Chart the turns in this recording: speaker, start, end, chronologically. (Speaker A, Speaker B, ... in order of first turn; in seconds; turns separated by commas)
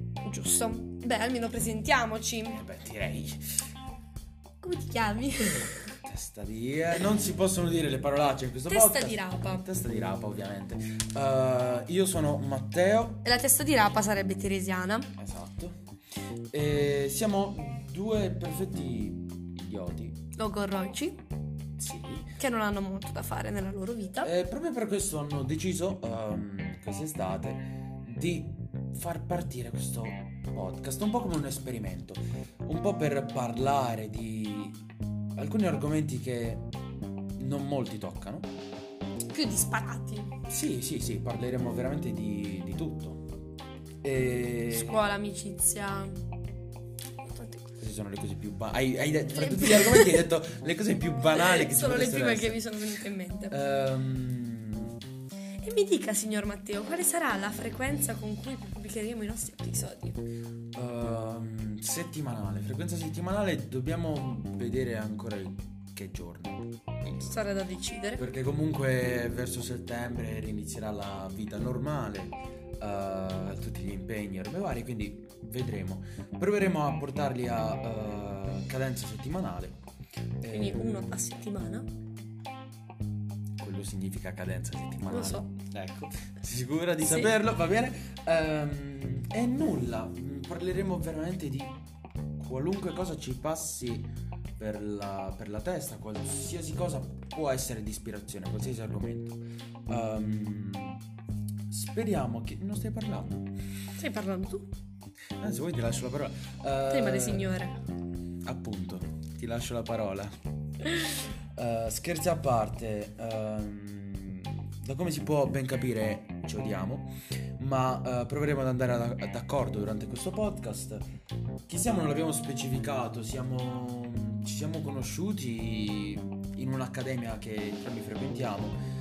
Speaker A: 0.2-2.6, Speaker B: 2.5-3.4, Speaker A: 4.6-5.8, Speaker B: 6.0-13.2, Speaker A: 8.7-9.7, Speaker A: 13.2-15.1, Speaker B: 15.2-15.8, Speaker B: 16.5-20.2, Speaker A: 20.4-21.2, Speaker B: 21.8-22.3, Speaker A: 22.4-24.3, Speaker B: 24.2-34.8, Speaker B: 35.4-36.7, Speaker B: 37.4-38.5, Speaker A: 39.3-40.3, Speaker B: 40.5-43.2, Speaker B: 44.0-45.0, Speaker A: 44.7-46.2, Speaker A: 47.2-47.6, Speaker B: 47.8-52.6, Speaker A: 49.3-50.3, Speaker A: 51.3-53.5, Speaker B: 53.5-54.9, Speaker A: 55.6-60.2, Speaker B: 60.7-67.4, Speaker A: 67.2-68.2, Speaker B: 68.2-79.8, Speaker B: 80.4-81.2, Speaker A: 80.5-81.9, Speaker B: 83.6-91.8, Speaker A: 85.1-85.5, Speaker A: 87.0-87.3, Speaker B: 92.4-101.0, Speaker B: 101.7-103.5, Speaker A: 104.0-104.7, Speaker B: 105.4-107.5, Speaker A: 106.9-107.8, Speaker B: 108.5-110.3, Speaker B: 111.5-121.0, Speaker B: 121.7-128.8